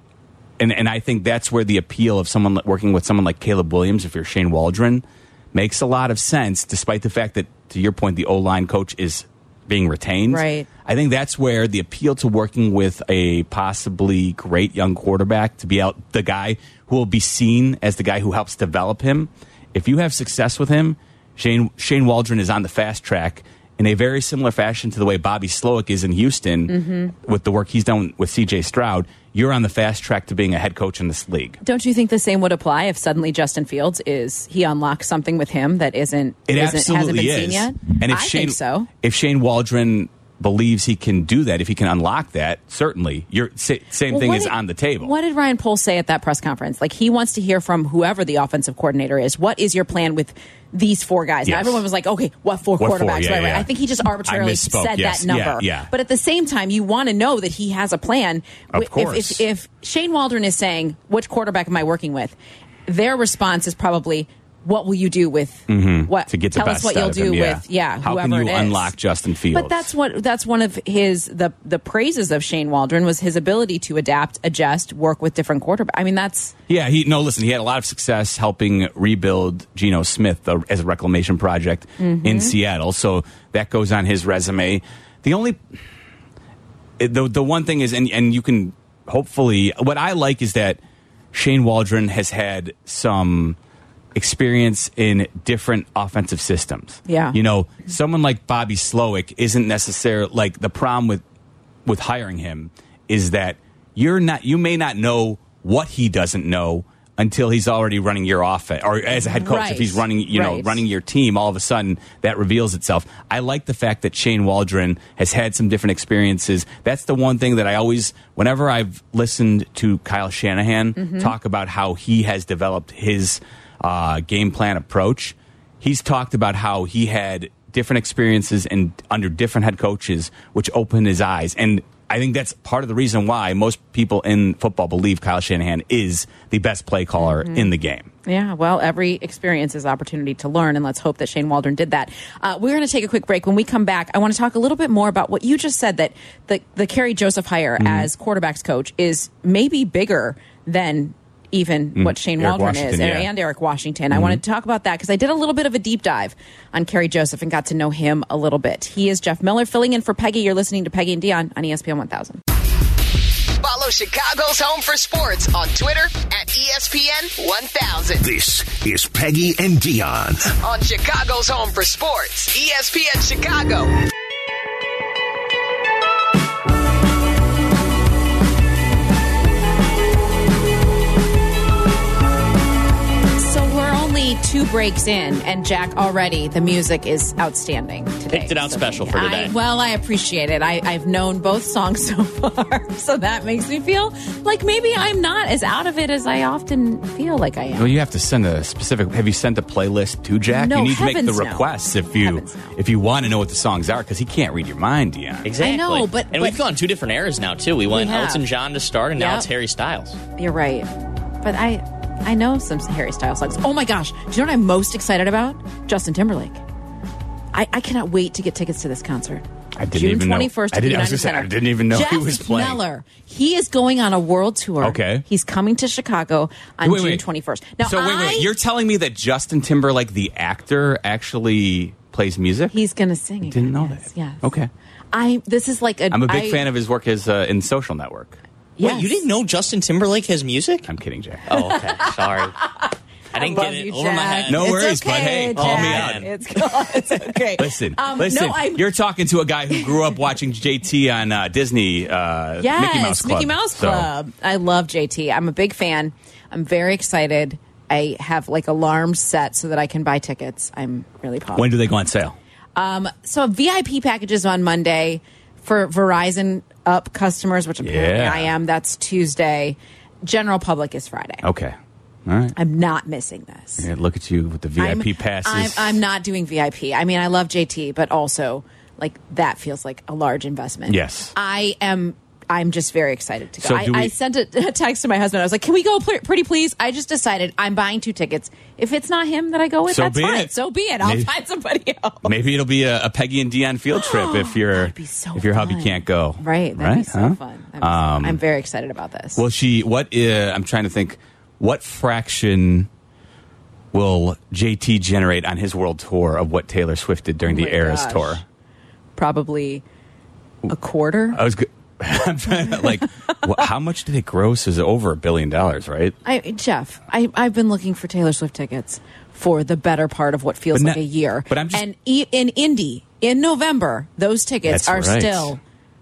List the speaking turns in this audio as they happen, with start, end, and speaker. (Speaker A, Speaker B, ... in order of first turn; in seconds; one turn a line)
Speaker A: 0.6-31.6
Speaker B: 10.3-10.7
Speaker B: 26.7-27.1
Speaker B: 31.6-38.9
Speaker A: 36.5-45.1
Speaker B: 44.1-68.9
Speaker A: 51.4-51.8
Speaker A: 52.8-53.7
Speaker A: 54.2-55.9
Speaker A: 58.7-59.4
Speaker A: 65.7-69.9
Speaker B: 69.5-76.5
Speaker A: 76.7-85.6
Speaker B: 82.0-82.5
Speaker A: 87.0-90.8
Speaker A: 91.3-93.6
Speaker A: 94.1-101.2
Speaker B: 97.1-97.4
Speaker A: 101.8-138.1
Speaker B: 109.1-110.8
Speaker B: 121.0-121.3
Speaker B: 137.2-137.7
Speaker B: 138.2-162.4
Speaker A: 147.8-148.1
Speaker A: 151.9-153.3
Speaker A: 154.1-154.4
Speaker C: 163.6-168.2
Speaker D: 168.2-170.5
Speaker C: 170.6-173.9
Speaker B: 183.4-197.9
Speaker E: 188.3-189.5
Speaker A: 197.7-205.5
Speaker B: 200.5-202.7
Speaker E: 205.4-210.2
Speaker B: 205.6-206.6
Speaker B: 207.9-208.4
Speaker B: 209.2-209.5
Speaker B: 210.4-210.9
Speaker B: 211.4-216.6
Speaker B: 217.5-228.5
Speaker A: 219.8-222.8
Speaker A: 224.8-225.2
Speaker A: 226.8-227.2
Speaker A: 227.8-232.8
Speaker B: 232.7-234.5
Speaker A: 233.4-234.7
Speaker B: 235.1-236.7
Speaker A: 236.1-238.4
Speaker B: 238.8-239.2
Speaker E: 238.8-240.9
Speaker A: 240.8-241.4
Speaker E: 241.5-242.5
Speaker B: 241.5-248.8
Speaker E: 243.3-244.8
Speaker A: 244.5-246.3
Speaker E: 245.5-246.3
Speaker A: 247.5-254.1
Speaker B: 252.6-261.7
Speaker A: 261.5-262.4
Speaker B: 262.8-271.4
Speaker A: 267.8-268.5
Speaker A: 271.4-272.5
Speaker B: 272.5-273.9
Speaker A: 273.8-276.0
Speaker B: 274.8-292.3
Speaker A: 280.9-281.3
Speaker A: 283.6-284.1
Speaker A: 289.9-291.3
Speaker A: 292.2-298.4
Speaker B: 293.9-299.4
Speaker A: 299.4-302.9
Speaker A: 303.9-308.4
Speaker B: 307.4-308.4
Speaker B: 309.1-309.8
Speaker B: 310.7-311.4
Speaker A: 311.3-316.1
Speaker B: 316.2-325.6
Speaker A: 320.7-321.8
Speaker A: 324.6-325.6